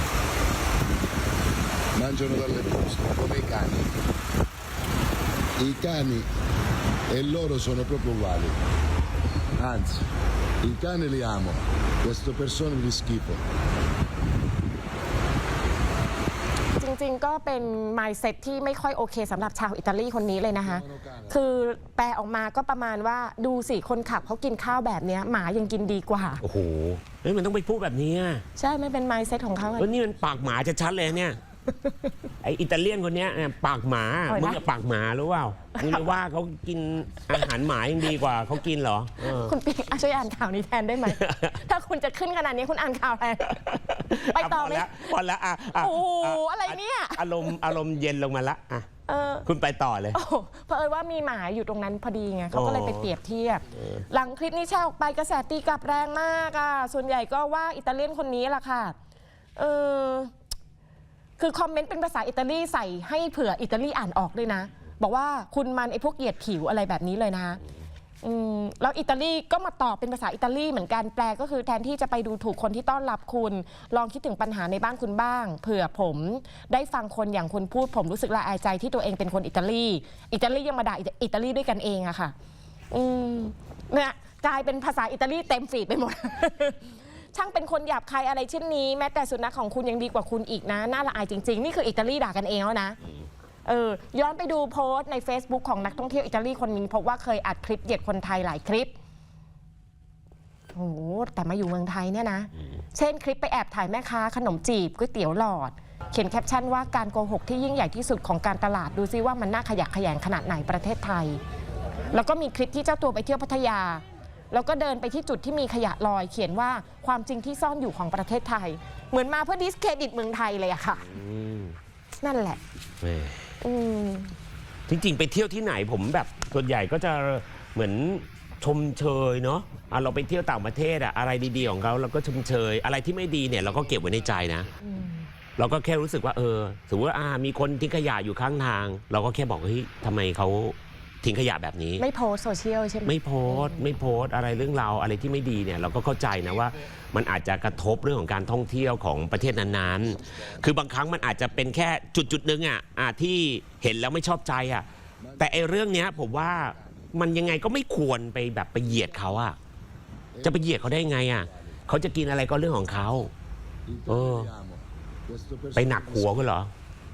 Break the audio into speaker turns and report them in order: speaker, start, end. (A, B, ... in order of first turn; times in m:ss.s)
0:01.9-0:04.0 A
0:05.6-0:06.3 A
0:07.1-0:08.6 A
0:09.6-0:10.0 A
0:10.6-0:13.4 A
0:16.8-0:26.4 B
0:20.6-0:21.4 A
0:26.4-0:28.4 C
0:28.6-0:29.9 B
0:29.8-0:31.4 C
0:31.8-0:32.1 B
0:32.4-0:39.6 C
0:34.3-0:34.6 B
0:35.8-0:36.1 B
0:39.2-0:45.1 B
0:41.0-0:41.5 C
0:43.5-0:48.9 C
0:45.7-0:47.8 B
0:49.1-0:49.5 B
0:49.4-0:50.2 C
0:50.1-0:59.0 B
0:52.5-0:53.1 C
0:53.8-0:54.0 C
0:59.6-1:00.3 B
1:01.4-1:07.6 B
1:08.2-1:22.3 B
1:22.9-1:33.0 B
1:33.6-1:38.9 B
1:40.7-1:51.4 B
1:52.1-2:01.1 B
2:01.0-2:01.8 C
2:02.2-2:02.6 B
2:03.0-2:03.5 C
2:03.6-2:04.4 B
2:04.9-2:14.7 C
2:14.8-2:15.3 B
2:15.6-2:22.0 C
2:22.0-2:23.9 B
2:23.1-2:34.9 C
2:29.4-2:30.7 A
2:31.2-2:31.6 A
2:35.2-2:37.2 A
2:35.4-2:39.6 C
2:38.9-2:39.3 A
2:40.3-2:41.8 A
2:40.4-2:43.3 C
2:43.9-2:46.5 A
2:44.1-2:44.5 C
2:45.8-2:46.7 C